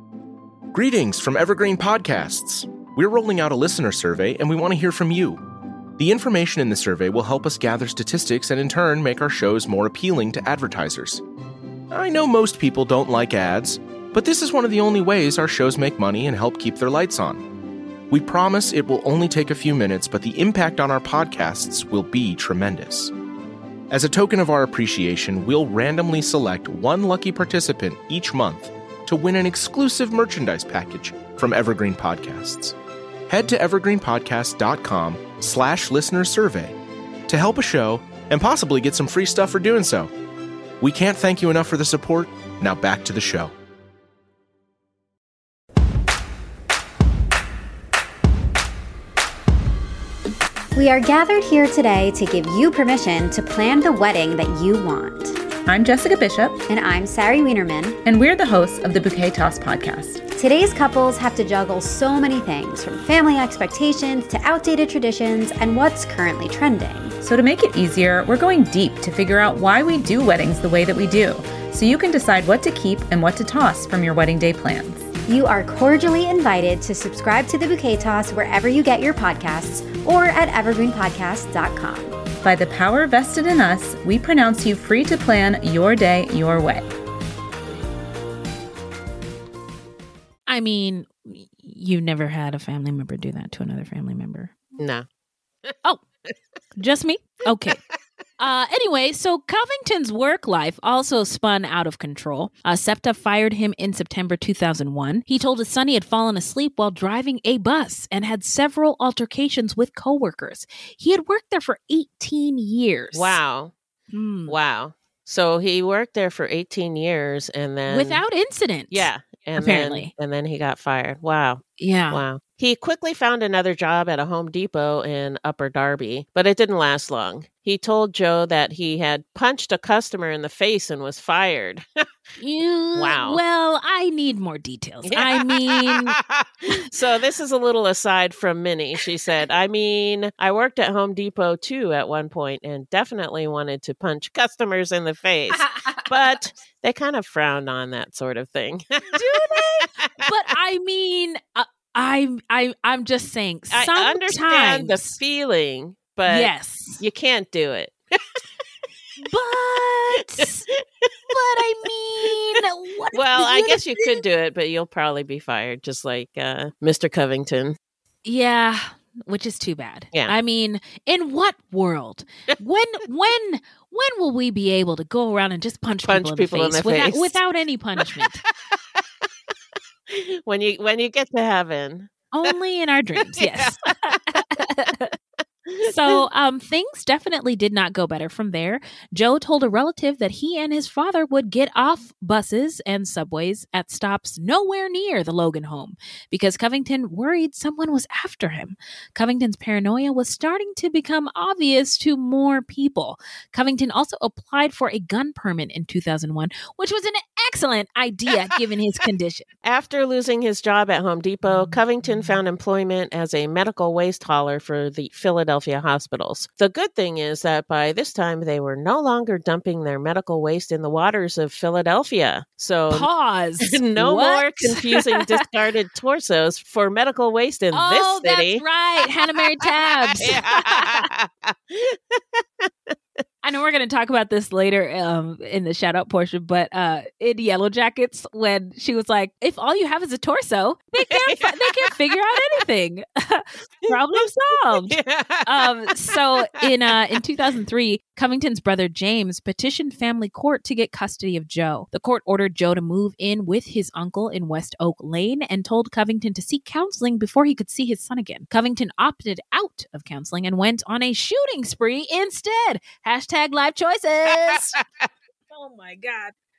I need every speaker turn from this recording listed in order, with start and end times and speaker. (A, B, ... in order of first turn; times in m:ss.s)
0:00.7-0:05.4 A
0:06.0-0:11.2 A
0:11.9-0:17.4 A
0:18.1-0:23.1 A
0:23.9-0:32.8 A
0:33.3-0:36.8 A
0:37.3-0:40.1 A
0:40.8-0:43.5 A
0:50.7-0:55.4 B
0:55.7-0:56.6 C
0:56.7-0:58.0 B
0:58.0-1:00.2 C
1:00.3-1:07.2 B
1:07.2-1:15.1 C
1:15.3-1:22.2 B
1:22.3-1:26.9 C
1:30.5-1:34.6 D
1:34.8-1:35.1 E
1:36.8-1:37.8 D
1:38.4-1:53.4 D
1:53.1-1:53.7 E
1:54.1-1:54.6 D
1:54.5-1:58.2 E
1:57.9-2:00.1 D
1:58.9-2:11.9 E
2:01.8-2:02.2 D
2:12.4-2:16.2 D
2:13.0-2:13.4 E
2:15.0-2:29.1 E
2:25.5-2:26.0 D
2:29.0-2:35.2 D
2:33.7-2:38.2 E
2:36.3-2:37.0 D
2:39.2-2:40.7 D
2:41.3-2:44.2 D
2:43.1-2:47.8 E
2:48.2-2:58.4 D
2:56.0-2:57.4 E
3:00.1-3:02.1 E
3:02.3-3:05.1 D
3:03.3-3:03.8 E
3:05.7-3:06.2 E
3:05.8-3:29.5 D
3:29.6-3:43.1 E
3:31.5-3:32.4 D
3:42.9-3:45.4 D
3:43.6-3:48.6 E
3:47.7-3:51.1 D
3:50.2-3:52.9 E
3:53.4-4:24.8 D
4:01.0-4:01.9 E
4:03.8-4:06.7 E
4:24.3-4:25.1 E
4:25.5-4:26.3 D